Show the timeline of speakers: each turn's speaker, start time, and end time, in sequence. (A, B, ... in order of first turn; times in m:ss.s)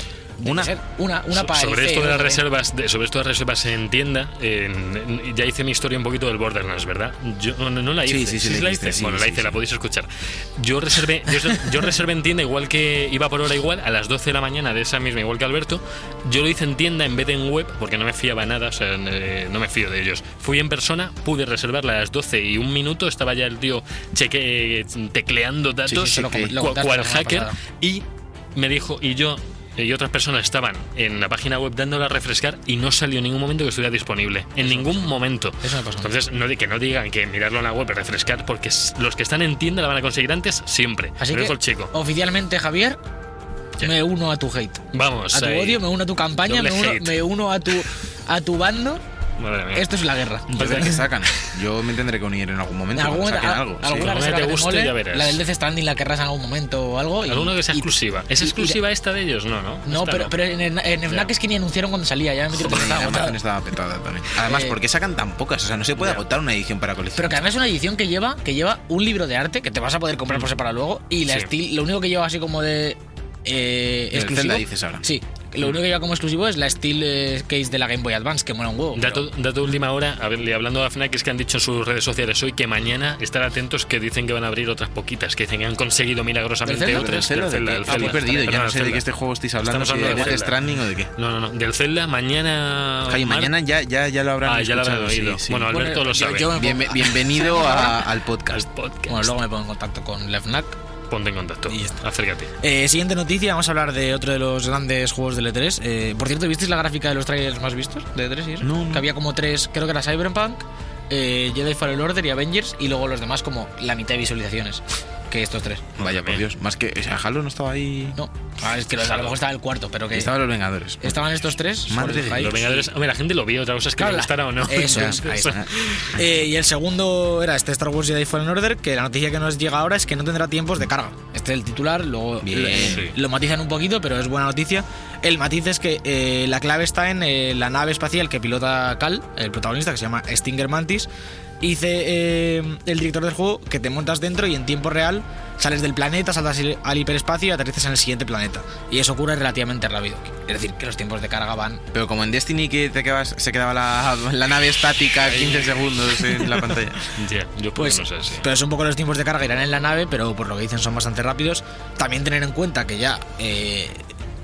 0:00.4-0:02.4 A
0:00.4-0:00.7 B
0:01.3-0:28.0 C
0:08.0-0:09.6 B
0:25.9-0:26.5 B
0:25.9-0:27.6 A
0:28.6-0:41.9 C
0:34.6-0:36.1 A
0:41.2-0:43.0 A
0:43.8-0:49.0 A
0:44.9-0:45.8 C
0:46.4-0:47.2 C
0:49.4-0:50.0 C
0:49.7-0:51.0 A
0:50.5-0:54.2 B
0:50.5-0:51.0 C
0:52.9-0:58.8 A
0:54.0-0:55.4 C
0:57.2-1:00.3 C
0:59.9-1:03.4 A
1:02.6-1:07.4 B
1:04.4-1:04.8 A
1:06.0-1:06.2 C
1:07.2-1:19.2 A
1:14.1-1:15.0 B
1:18.9-1:29.0 C
1:26.6-1:27.1 A
1:26.8-1:31.1 B
1:27.9-1:28.5 A
1:29.6-1:30.6 C
1:29.9-1:30.4 A
1:31.2-1:33.5 C
1:33.1-1:35.7 B
1:34.4-1:36.5 C
1:35.7-1:38.0 A
1:36.6-1:38.7 B
1:38.5-1:39.3 C
1:39.1-1:40.8 A
1:41.1-1:42.5 C
1:41.7-1:42.0 A
1:42.6-1:55.9 A
1:48.6-1:49.1 B
1:56.0-1:58.2 B
1:56.0-1:56.4 C
1:58.2-2:00.3 A
1:59.0-1:59.3 C
2:00.1-2:01.2 B
2:01.0-2:02.9 A
2:01.9-2:02.6 B
2:02.2-2:05.6 C
2:04.0-2:21.1 A
2:04.9-2:05.7 B
2:12.4-2:13.1 B
2:12.8-2:13.2 C
2:21.6-2:31.8 A
2:31.9-2:37.0 B
2:35.2-2:35.9 C
2:37.2-2:38.4 C
2:37.7-2:44.0 A